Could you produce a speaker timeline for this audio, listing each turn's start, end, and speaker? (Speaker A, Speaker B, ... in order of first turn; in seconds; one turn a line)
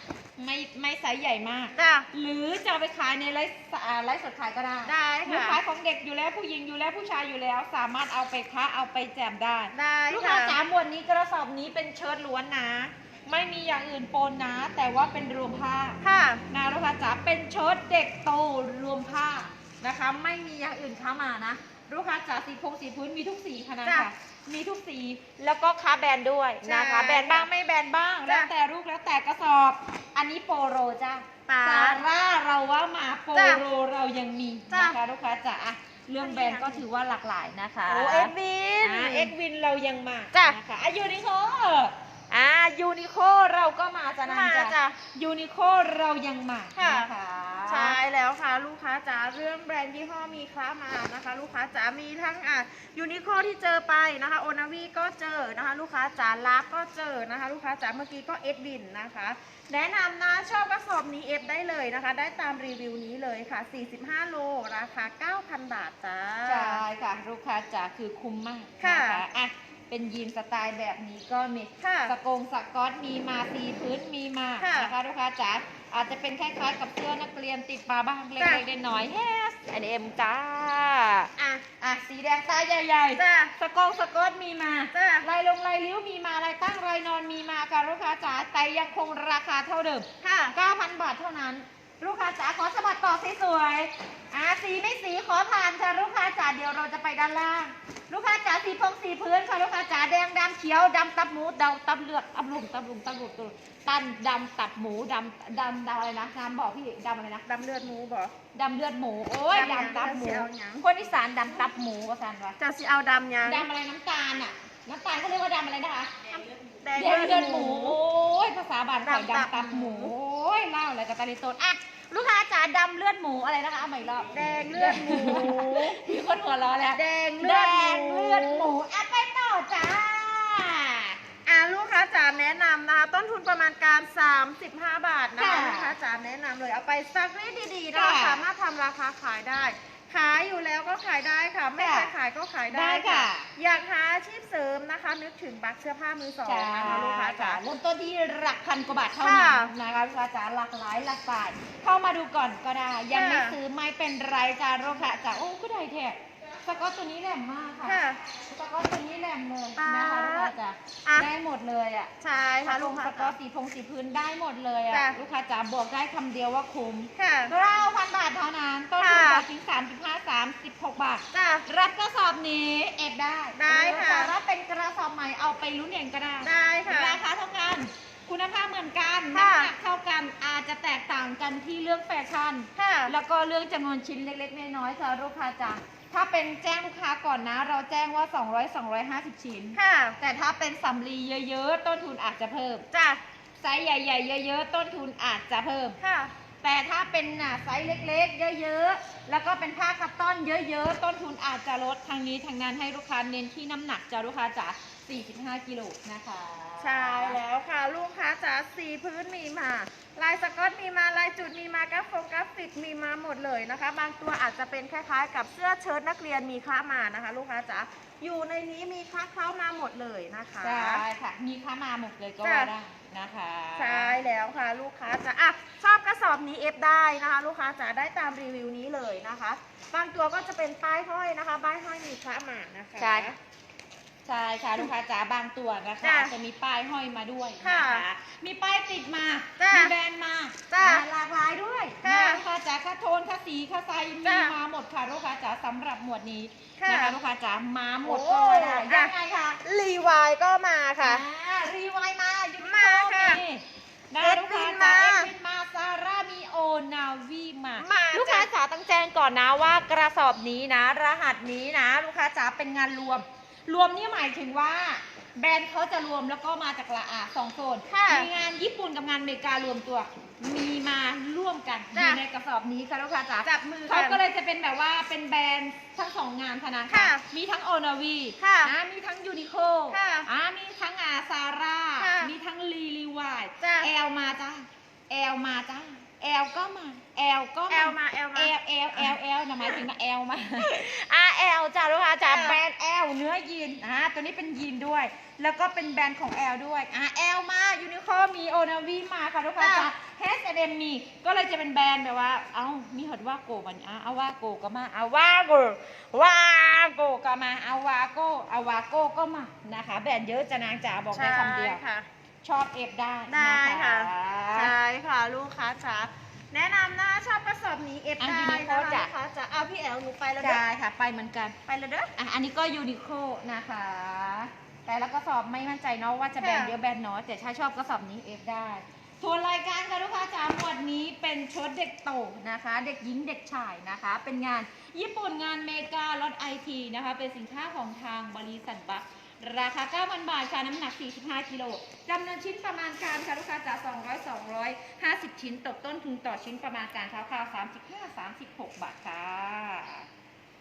Speaker A: 0.4-48.0
Speaker B: 1.8-2.1
Speaker B: 4.8-5.6
Speaker B: 9.7-10.6
Speaker B: 16.0-16.4
Speaker B: 26.6-27.5
Speaker B: 31.5-32.0
Speaker B: 33.3-33.6
Speaker B: 34.7-35.0
Speaker B: 36.2-36.8
Speaker B: 37.9-39.3
Speaker B: 44.2-45.0
Speaker B: 46.7-47.1
Speaker B: 47.7-66.8
Speaker A: 66.5-107.4
Speaker B: 68.8-69.2
Speaker B: 71.8-72.1
Speaker B: 74.6-74.9
Speaker B: 78.4-78.6
Speaker B: 81.4-81.6
Speaker B: 83.2-83.5
Speaker B: 84.9-85.2
Speaker B: 90.2-90.5
Speaker B: 107.5-108.3
Speaker A: 108.5-112.6
Speaker B: 109.5-110.8
Speaker B: 112.6-113.7
Speaker A: 113.4-116.3
Speaker B: 116.8-118.0
Speaker A: 117.0-131.2
Speaker B: 119.0-120.1
Speaker B: 124.3-126.1
Speaker B: 126.9-128.7
Speaker B: 131.4-147.6
Speaker A: 135.4-135.9
Speaker A: 137.9-138.4
Speaker A: 141.8-142.1
Speaker A: 142.7-143.5
Speaker A: 146.4-162.1
Speaker B: 149.2-149.7
Speaker B: 153.1-153.6
Speaker B: 157.8-158.2
Speaker B: 159.8-161.3
Speaker B: 162.2-163.3
Speaker A: 162.6-192.8
Speaker B: 164.9-165.2
Speaker B: 167.2-167.5
Speaker B: 169.0-169.4
Speaker B: 171.3-171.7
Speaker B: 173.5-174.3
Speaker B: 176.4-177.2
Speaker B: 179.3-179.7
Speaker B: 182.8-183.1
Speaker B: 189.7-190.2
Speaker B: 192.9-193.2
Speaker A: 193.6-196.0
Speaker B: 196.0-196.3
Speaker A: 196.6-207.4
Speaker B: 206.8-221.0
Speaker A: 220.6-224.1
Speaker B: 222.4-222.7
Speaker B: 223.7-233.4
Speaker A: 233.0-233.3
Speaker A: 234.2-249.6
Speaker B: 236.0-236.3
Speaker B: 237.6-238.0
Speaker B: 239.6-239.9
Speaker B: 240.7-241.0
Speaker B: 242.0-242.4
Speaker B: 244.2-244.5
Speaker B: 246.8-247.2
Speaker B: 248.0-249.1
Speaker B: 249.6-251.2
Speaker A: 251.0-311.8
Speaker B: 252.6-253.4
Speaker B: 254.2-255.3
Speaker B: 257.8-258.5
Speaker B: 267.9-268.3
Speaker B: 271.9-272.2
Speaker B: 273.4-274.2
Speaker B: 276.9-277.2
Speaker B: 278.4-278.7
Speaker B: 279.9-280.3
Speaker B: 282.0-282.3
Speaker B: 283.6-283.9
Speaker B: 287.7-289.1
Speaker B: 292.2-292.6
Speaker B: 299.6-299.9
Speaker B: 311.1-312.1
Speaker A: 312.4-314.7
Speaker B: 313.3-320.6
Speaker A: 318.2-319.1
Speaker A: 320.4-321.6
Speaker B: 321.7-322.1
Speaker A: 322.1-350.1
Speaker B: 326.4-326.7